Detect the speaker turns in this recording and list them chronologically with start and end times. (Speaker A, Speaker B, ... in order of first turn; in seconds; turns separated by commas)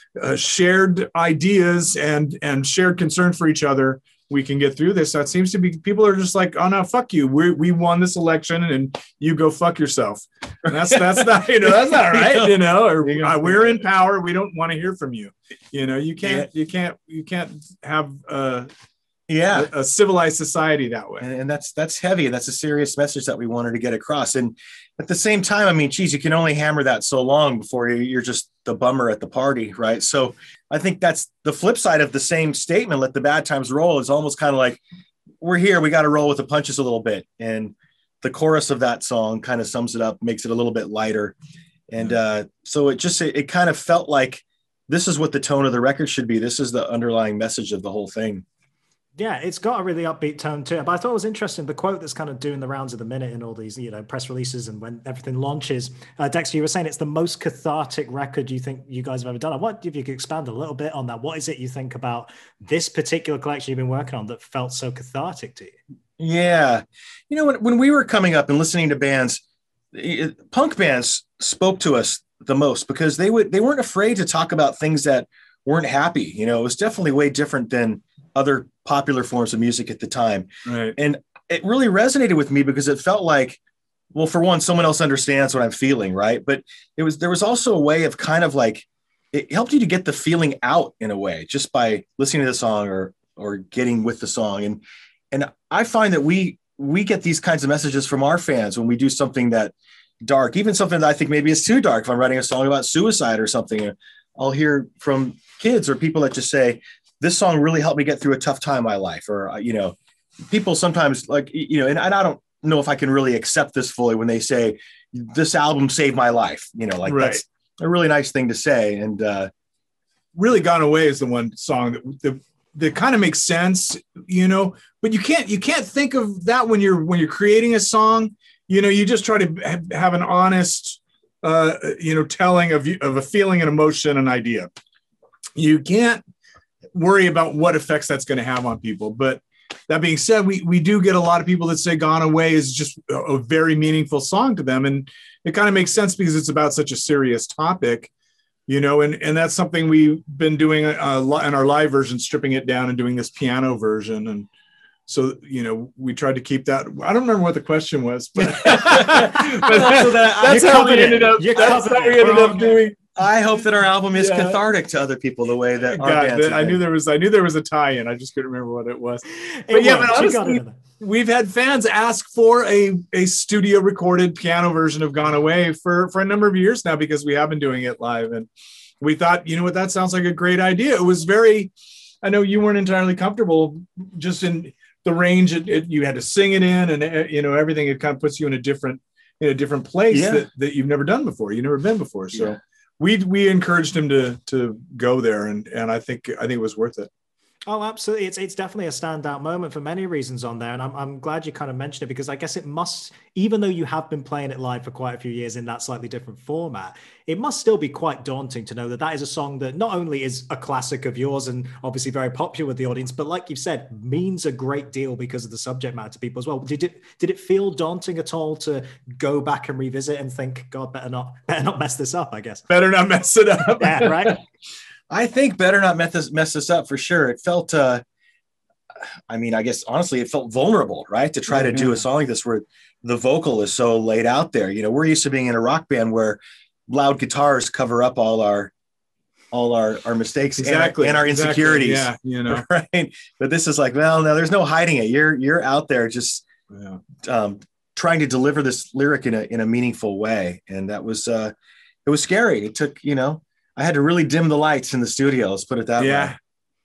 Speaker A: 0.1-18.7, Speaker B: 10.7-13.8, Speaker B: 16.2-16.5, Speaker B: 19.3-19.7, Speaker A: 19.5-21.2, Speaker B: 21.2-34.8, Speaker B: 35.4-41.4, Speaker B: 41.9-48.4, Speaker C: 49.2-65.8, Speaker B: 66.2-69.4, Speaker B: 69.9-83.6, Speaker A: 80.7-81.0, Speaker B: 84.1-110.0, Speaker B: 110.5-119.5, Speaker A: 117.1-117.4, Speaker A: 120.3-134.7, Speaker A: 135.6-136.2, Speaker A: 136.9-148.1, Speaker A: 148.7-154.5, Speaker A: 155.1-163.0, Speaker B: 158.4-161.2, Speaker C: 160.4-162.8, Speaker B: 163.2-166.8, Speaker A: 164.1-164.6, Speaker A: 165.9-178.5, Speaker C: 169.3-170.8, Speaker A: 179.0-181.7, Speaker A: 182.2-197.1, Speaker B: 190.1-190.4, Speaker B: 192.3-192.6, Speaker C: 197.7-222.7, Speaker A: 222.7-224.4, Speaker C: 223.8-224.4, Speaker B: 225.1-228.0, Speaker B: 229.3-238.7, Speaker A: 231.5-232.0, Speaker B: 239.5-246.4, Speaker A: 240.6-242.7, Speaker A: 246.7-247.0, Speaker B: 247.2-251.5, Speaker B: 252.1-256.3, Speaker A: 256.0-256.4